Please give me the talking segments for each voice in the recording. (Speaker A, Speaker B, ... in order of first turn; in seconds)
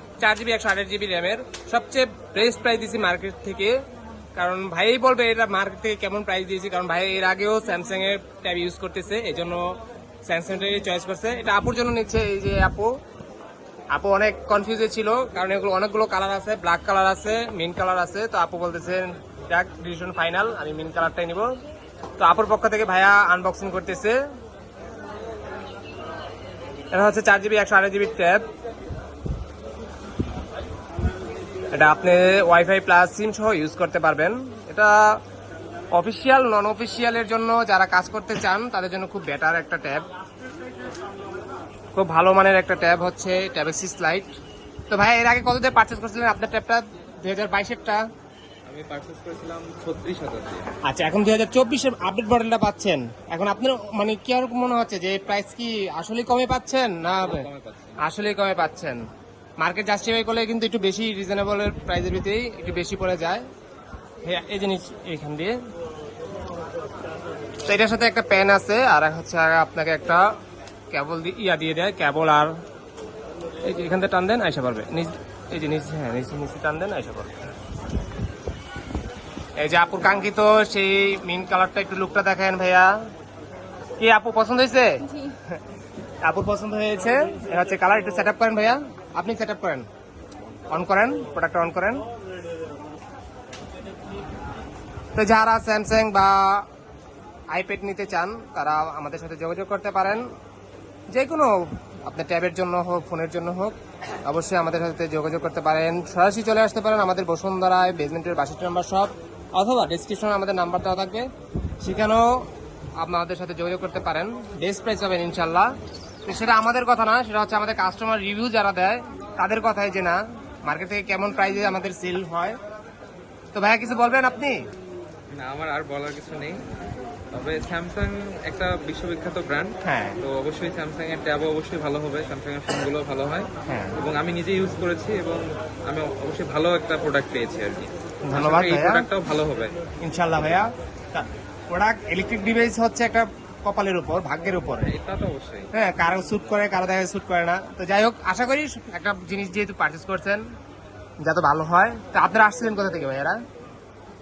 Speaker A: 0.2-3.8, 4.4-12.9, 13.9-21.6, 22.2-24.2, 26.9-28.4, 31.7-35.2, 36.0-40.1, 42.0-44.3, 44.9-48.0, 50.9-57.5, 58.0-59.0, 59.6-63.4, 64.2-65.5, 67.7-70.2, 70.9-72.5, 73.6-77.4, 79.6-82.9, 84.0-85.6, 86.2-89.9, 90.7-92.0, 95.2-96.7, 97.5-100.3, 101.1-103.8, 104.3-111.3, 111.8-112.5, 113.0-115.7, 116.2-122.6, 123.5-124.6, 129.8-130.2, 133.7-134.0, 138.3-139.1, 140.0-144.9, 145.7-150.4, 151.2-153.4
Speaker B: 48.7-50.7, 57.1-58.0, 125.3-126.6, 127.3-139.8, 144.8-145.7